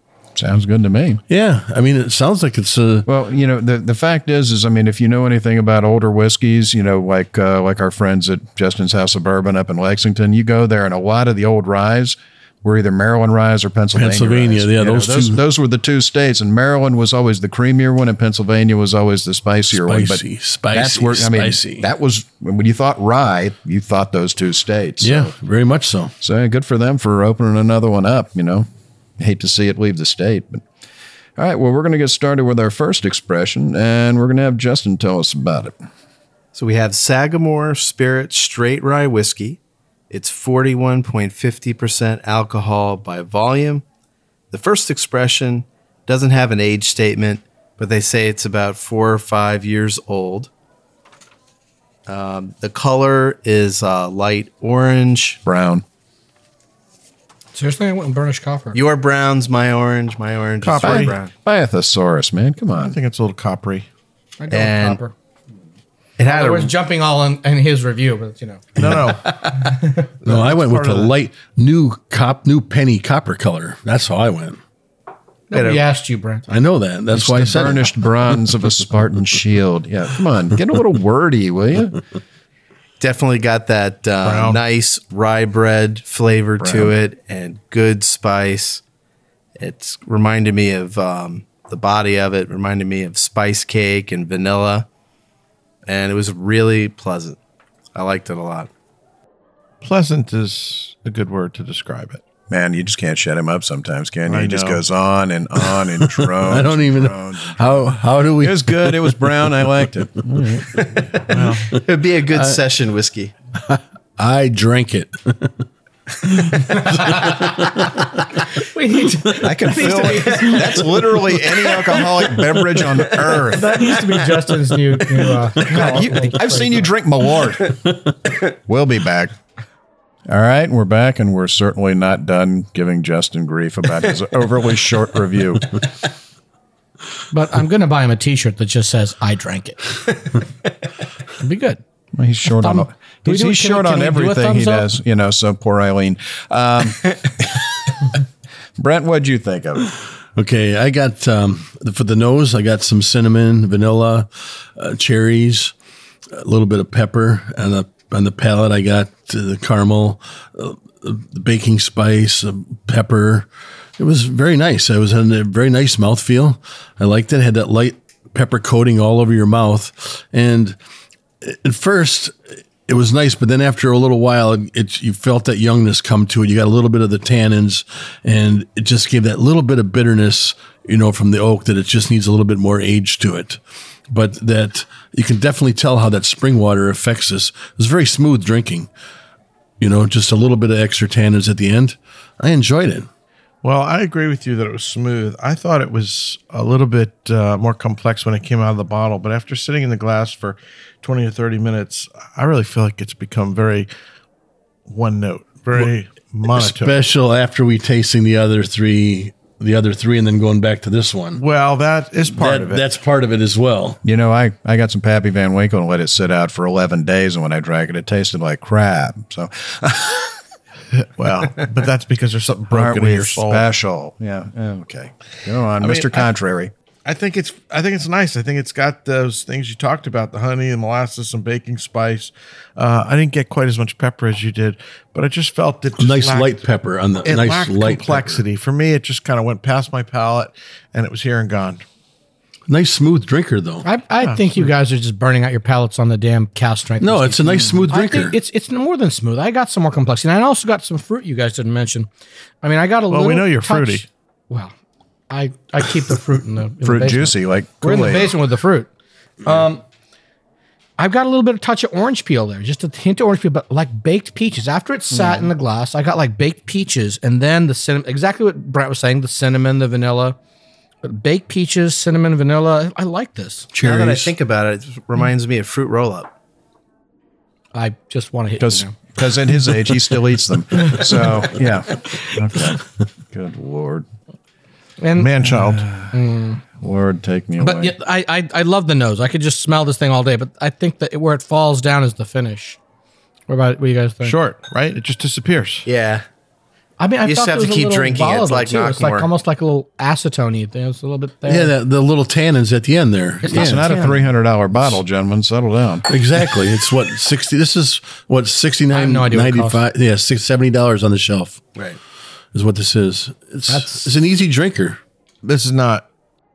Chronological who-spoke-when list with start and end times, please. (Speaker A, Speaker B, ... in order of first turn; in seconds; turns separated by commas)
Speaker A: 0.3-1.2, Speaker B: 1.3-3.1, Speaker A: 3.1-25.3, Speaker B: 13.9-15.4, Speaker B: 19.7-21.9, Speaker B: 25.0-26.1, Speaker A: 26.2-28.7, Speaker A: 29.2-30.6, Speaker A: 31.4-35.7, Speaker C: 36.5-39.6, Speaker C: 40.1-43.8, Speaker C: 44.5-50.5, Speaker C: 52.1-55.4, Speaker A: 55.5-55.8, Speaker D: 57.5-58.8, Speaker C: 58.7-61.3, Speaker E: 60.6-61.2, Speaker A: 60.8-63.0, Speaker E: 62.8-63.9, Speaker D: 64.4-65.1, Speaker C: 64.5-65.0, Speaker C: 66.2-66.7, Speaker D: 66.2-68.8, Speaker E: 68.8-71.1, Speaker B: 68.8-69.1, Speaker D: 69.4-70.0, Speaker B: 70.2-74.6, Speaker D: 75.5-76.4, Speaker C: 75.5-75.8, Speaker B: 76.5-78.1, Speaker A: 77.1-82.0, Speaker C: 83.0-88.8, Speaker E: 84.2-84.6, Speaker A: 86.6-86.9, Speaker C: 89.6-94.9, Speaker C: 95.9-97.4, Speaker C: 97.9-98.7, Speaker E: 99.8-102.2, Speaker A: 102.5-110.8, Speaker E: 104.3-104.8, Speaker B: 106.0-109.8, Speaker E: 111.2-111.7, Speaker C: 111.7-113.3, Speaker B: 112.3-112.6, Speaker B: 113.7-115.6, Speaker B: 116.2-118.1, Speaker D: 116.7-117.6, Speaker D: 118.5-120.9, Speaker A: 119.4-124.0, Speaker D: 123.5-126.9, Speaker A: 125.6-127.8, Speaker A: 128.5-129.3, Speaker A: 130.3-135.8, Speaker D: 137.3-140.0, Speaker D: 141.4-141.8, Speaker A: 142.2-148.0, Speaker D: 142.5-144.9, Speaker A: 148.8-149.9, Speaker B: 150.3-155.7, Speaker B: 156.3-163.5, Speaker B: 164.0-170.8, Speaker B: 171.4-183.6, Speaker B: 184.1-188.9, Speaker B: 189.8-193.1, Speaker E: 193.6-203.9, Speaker E: 204.9-207.0, Speaker B: 206.5-211.4, Speaker E: 211.3-212.8, Speaker B: 212.3-214.0, Speaker A: 214.0-220.4, Speaker E: 220.9-223.6, Speaker A: 222.7-226.7, Speaker E: 225.8-226.3, Speaker E: 227.0-236.6, Speaker B: 236.0-238.4, Speaker E: 237.2-241.8, Speaker B: 242.7-243.8, Speaker D: 243.8-252.1, Speaker E: 244.2-244.7, Speaker B: 247.0-248.3, Speaker D: 252.6-254.7, Speaker E: 253.1-254.1, Speaker D: 255.3-258.9, Speaker A: 256.8-258.3, Speaker D: 259.4-259.8, Speaker D: 261.0-270.4, Speaker A: 265.1-265.5, Speaker D: 271.0-273.7, Speaker A: 273.7-274.3, Speaker C: 273.8-276.3, Speaker D: 277.7-278.9, Speaker A: 278.6-284.1, Speaker D: 285.0-285.3, Speaker E: 285.2-285.9, Speaker A: 285.7-286.1, Speaker D: 286.1-286.6, Speaker A: 286.8-287.9, Speaker D: 287.6-292.8, Speaker D: 293.5-294.4, Speaker E: 294.2-295.9, Speaker C: 295.9-296.2, Speaker D: 297.0-301.7, Speaker C: 297.2-299.3, Speaker B: 301.5-303.9, Speaker D: 303.4-304.2, Speaker A: 303.5-306.1, Speaker B: 306.1-311.6, Speaker D: 308.9-309.8, Speaker B: 312.5-315.0, Speaker D: 313.7-314.0, Speaker E: 315.4-316.1